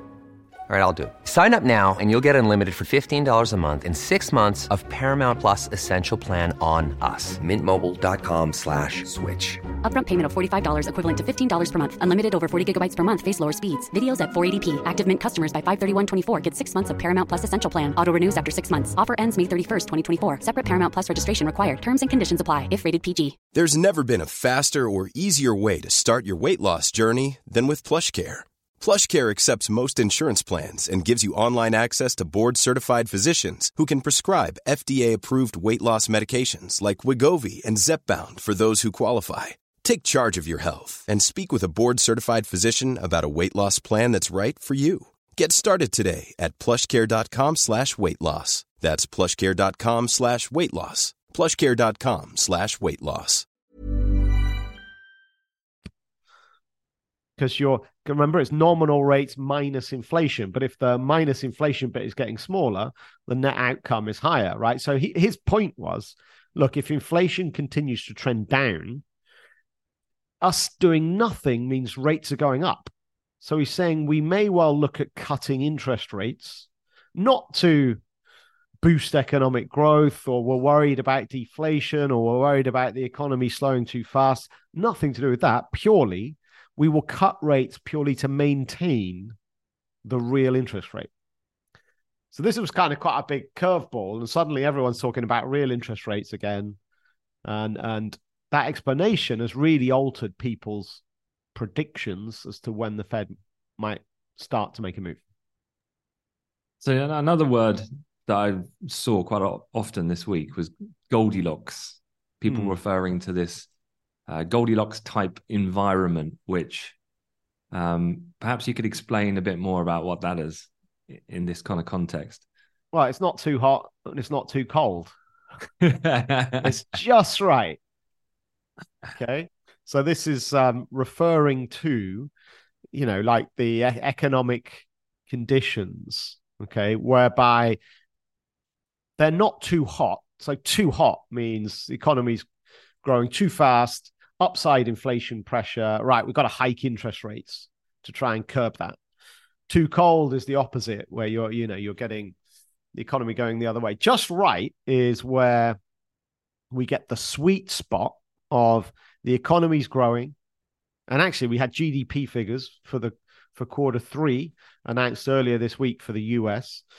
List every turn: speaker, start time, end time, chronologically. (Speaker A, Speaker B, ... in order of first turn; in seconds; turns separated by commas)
Speaker A: 0.7-9.6, Speaker B: 9.8-23.4, Speaker C: 23.5-53.5, Speaker D: 57.4-69.0, Speaker D: 70.4-78.0, Speaker D: 78.8-89.4, Speaker D: 90.0-91.1, Speaker D: 92.3-96.8, Speaker D: 97.5-101.0, Speaker D: 101.5-105.2, Speaker E: 106.8-113.7, Speaker D: 112.5-112.8, Speaker E: 114.3-117.0, Speaker E: 117.7-122.4, Speaker D: 122.9-125.1, Speaker E: 125.8-126.7, Speaker D: 126.6-127.8, Speaker D: 129.2-132.3, Speaker D: 132.9-137.8, Speaker D: 139.2-142.5, Speaker D: 143.0-149.0, Speaker D: 149.7-152.4, Speaker D: 152.9-155.8, Speaker D: 156.7-160.4, Speaker D: 161.1-166.8